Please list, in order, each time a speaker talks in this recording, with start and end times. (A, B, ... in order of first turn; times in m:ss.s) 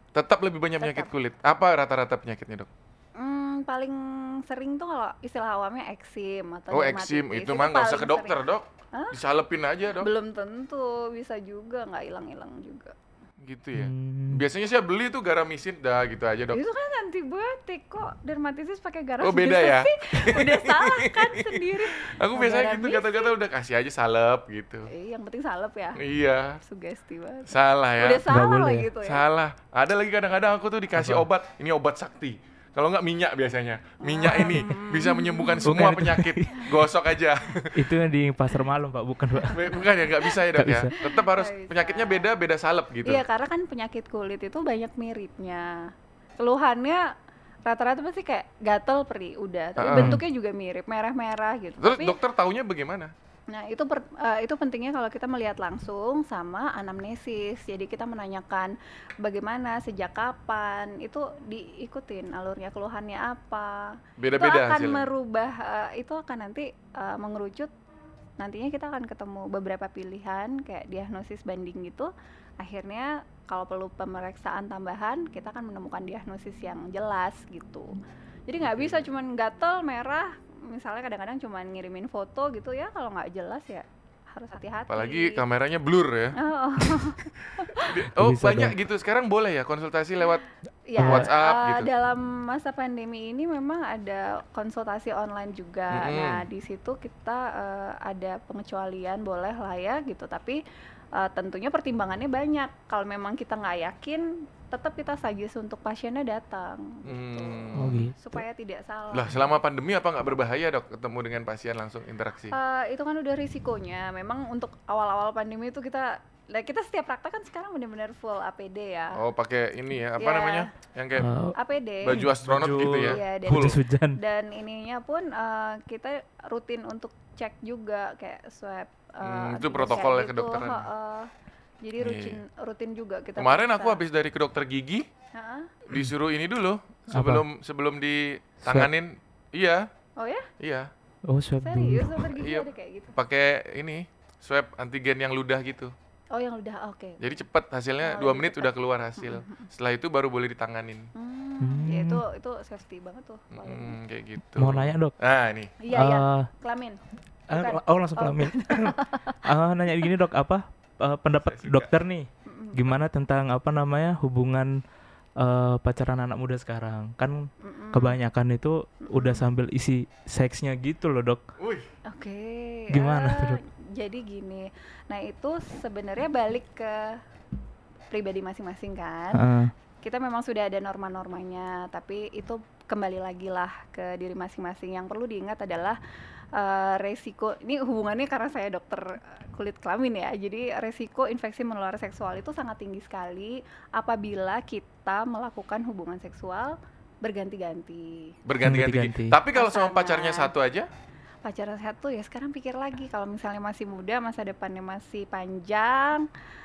0:00.1-0:02.7 A
0:00.8-0:01.1 B
0:03.2-0:08.4 B
0:06.7-0:10.1 A
0:10.0-0:12.9 B
0:13.4-0:16.6 A
0:13.8-0:14.4 C
0:16.5-0:23.3 B
0:19.2-0:24.9 A
0:24.9-0:26.0 B
0:26.0-0:26.6 A
0:26.6-0:29.2 B
0:27.5-0:28.2 A
0:28.3-0:28.9 C
0:29.0-0:37.9 A
0:30.9-0:31.2 C
0:34.0-0:35.7 B
0:35.6-0:36.7 C
0:37.7-0:39.8 C
0:39.5-0:43.2 A
0:40.5-0:40.9 C
0:41.0-0:42.2 B
0:43.0-0:47.1 B
0:47.6-0:52.2 B
0:49.8-0:50.2 A
0:49.9-0:50.2 C
0:51.8-0:53.1 A
0:53.5-1:07.7 B
1:04.2-1:05.1 A
1:08.4-1:17.9 B
1:18.5-1:25.4 B
1:18.6-1:19.0 A
1:24.9-1:30.4 A
1:26.3-1:28.0 B
1:28.1-1:28.8 C
1:30.9-1:40.6 B
1:31.0-1:31.9 A
1:31.0-1:31.3 C
1:35.9-1:36.4 A
1:41.2-1:49.3 B
1:47.0-1:48.1 A
1:47.7-1:48.4 C
1:49.1-1:52.5 A
1:52.5-1:59.2 B
1:59.1-2:01.3 A
2:00.2-2:00.7 B
2:01.2-2:04.2 C
2:01.5-2:02.2 B
2:02.0-2:03.8 A
2:02.8-2:11.3 B
2:09.2-2:10.8 A
2:11.8-2:14.0 B
2:12.0-2:12.4 A
2:13.4-2:15.1 A
2:15.3-2:15.7 B
2:15.9-2:19.9 A
2:17.1-2:17.4 C
2:20.2-2:20.5 B
2:20.6-2:20.9 A
2:21.3-2:22.2 C
2:21.6-2:23.1 B
2:22.2-2:25.9 A
2:26.3-2:27.2 B
2:27.2-2:31.1 A
2:28.0-2:29.7 B
2:31.1-2:34.0 B
2:31.6-2:32.2 C
2:33.5-2:35.7 A
2:34.6-2:35.1 C
2:35.8-2:39.4 B
2:35.9-2:36.5 C
2:37.5-2:44.8 C
2:41.4-2:41.9 A
2:42.4-2:42.8 B
2:45.4-2:51.4 C
2:47.6-2:48.2 B
2:49.0-2:49.4 B
2:51.6-2:51.9 A
2:52.1-2:57.2 B
2:52.9-2:53.6 C
2:58.1-2:59.4 B
2:59.3-2:59.7 C
3:00.0-3:06.0 B
3:06.5-3:18.4 B
3:18.4-3:20.9 A
3:18.6-3:19.4 C
3:19.5-3:20.5 B
3:21.4-3:26.3 B